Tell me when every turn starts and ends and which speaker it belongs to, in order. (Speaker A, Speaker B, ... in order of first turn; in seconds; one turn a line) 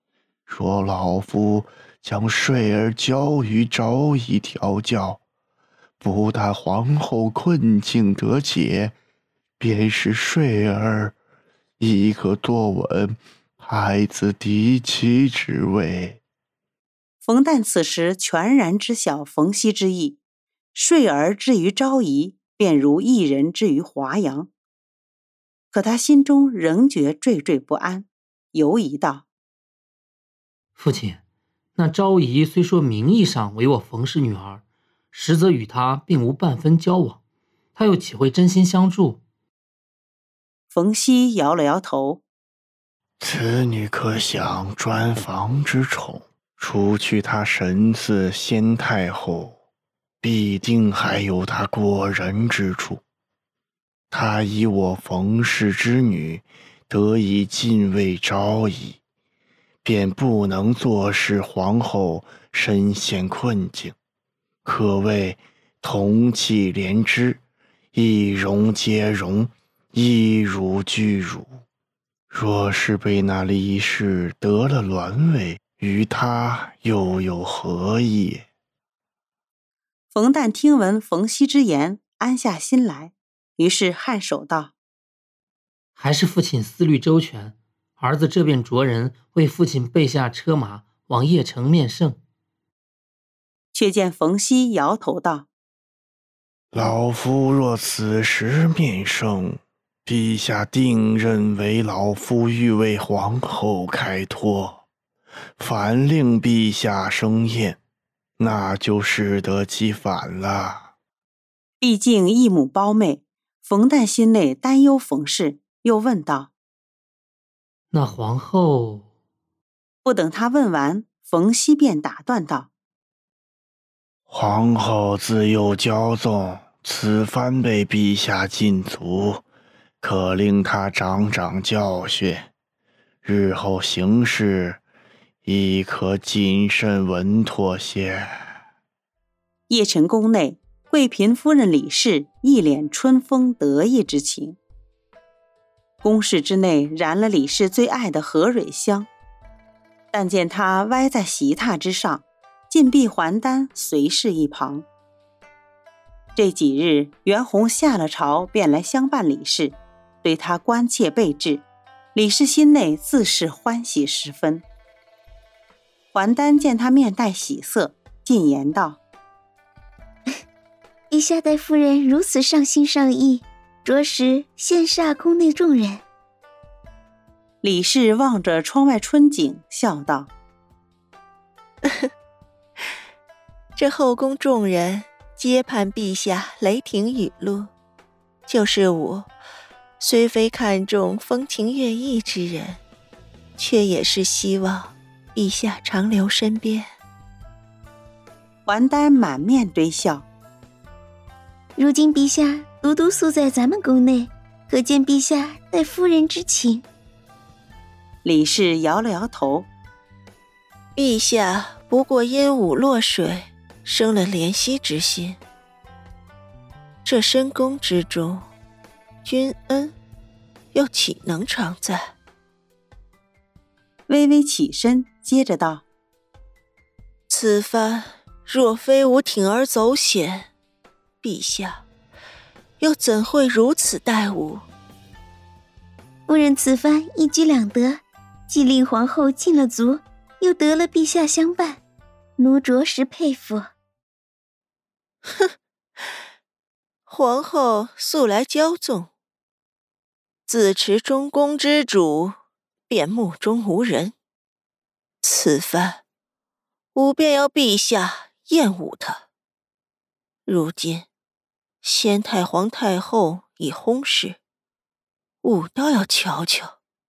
Speaker A: 0.5-5.2
Speaker A: 6.0-9.0
Speaker A: 9.6-11.2
Speaker A: 11.8-16.2
Speaker B: 17.2-20.2
Speaker B: 20.7-24.5
Speaker B: 25.7-29.2
Speaker C: 30.8-31.2
Speaker C: 31.8-37.2
Speaker C: 37.8-39.2
Speaker B: 40.7-42.2
Speaker A: 43.2-49.6
Speaker A: 50.2-53.0
Speaker A: 54.1-59.0
Speaker A: 59.8-64.0
Speaker A: 64.6-67.4
Speaker A: 67.9-71.5
Speaker A: 72.3-78.5
Speaker B: 80.1-84.7
Speaker C: 86.0-92.2
Speaker B: 93.7-95.5
Speaker A: 96.7-104.8
Speaker A: 105.6-107.8
Speaker A: 108.4-110.9
Speaker B: 111.8-116.5
Speaker C: 117.9-119.0
Speaker B: 120.0-122.7
Speaker A: 124.3-129.4
Speaker A: 130.0-132.5
Speaker A: 133.2-134.8
Speaker A: 135.4-138.5
Speaker B: 139.7-144.6
Speaker B: 146.0-149.1
Speaker B: 150.1-154.9
Speaker B: 156.3-164.6
Speaker B: 166.1-169.0
Speaker D: 171.1-176.0
Speaker B: 177.6-180.3
Speaker E: 183.8-187.7
Speaker E: 188.5-189.2
Speaker E: 190.0-192.8
Speaker E: 193.6-196.8
Speaker B: 198.7-200.2
Speaker D: 201.8-206.8
Speaker B: 208.2-209.7
Speaker E: 211.0-215.3
Speaker E: 217.1-218.4
Speaker E: 219.2-219.9
Speaker E: 220.8-222.0
Speaker B: 224.1-225.8
Speaker E: 227.3-230.4
Speaker E: 231.2-231.8
Speaker E: 232.8-234.6
Speaker D: 236.3-241.8
Speaker D: 242.4-243.7
Speaker E: 247.1-249.1
Speaker E: 250.5-252.3
Speaker E: 252.9-254.1
Speaker E: 255.2-256.0
Speaker E: 257.0-259.2
Speaker E: 260.5-261.0
Speaker E: 261.8-264.4
Speaker E: 265.4-266.7